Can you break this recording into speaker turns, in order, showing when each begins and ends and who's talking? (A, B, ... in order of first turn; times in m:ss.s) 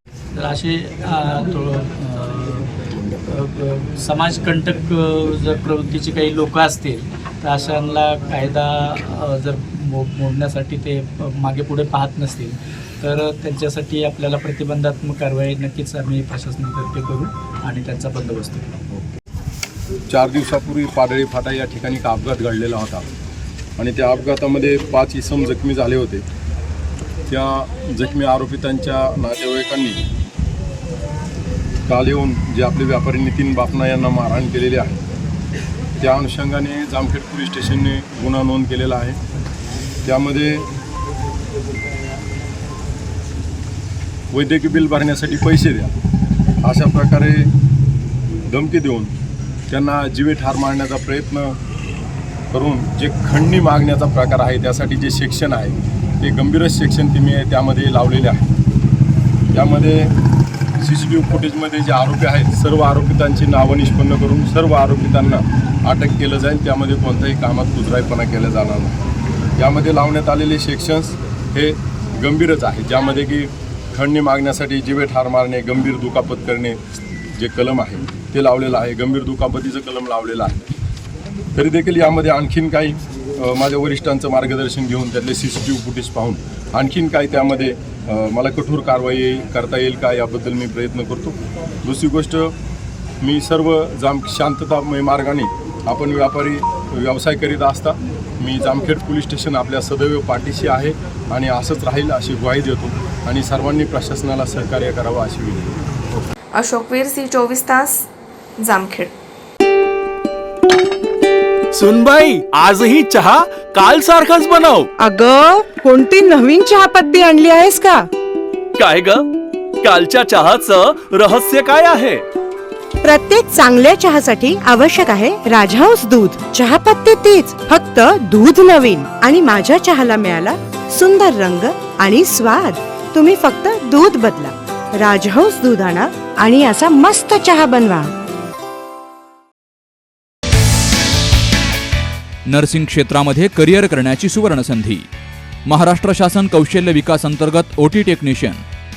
0:00.3-0:18.8 A
0:20.1-0:23.1 B
0:23.8-0:26.2 B
0:27.3-0:30.0 B
0:31.9-0:35.0 B
0:36.0-0:39.2 B
0:40.1-0:40.7 B
0:44.3-0:45.9 B
0:46.6-0:47.5 B
0:48.5-0:49.1 B
0:49.7-0:51.6 B
0:52.5-0:58.5 B
0:59.5-1:00.1 B
1:00.8-1:09.0 B
1:09.6-1:16.8 B
1:17.4-1:20.6 B
1:21.6-1:32.5 B
1:33.2-1:45.8 B
1:46.6-1:48.0 C
1:48.6-1:49.1 C
1:51.8-1:54.9 D
1:55.0-1:58.1 E
1:58.8-1:59.2 D
1:59.8-2:02.2 D
2:03.0-2:18.1 E
2:22.5-2:25.1 F
2:25.7-2:28.6 F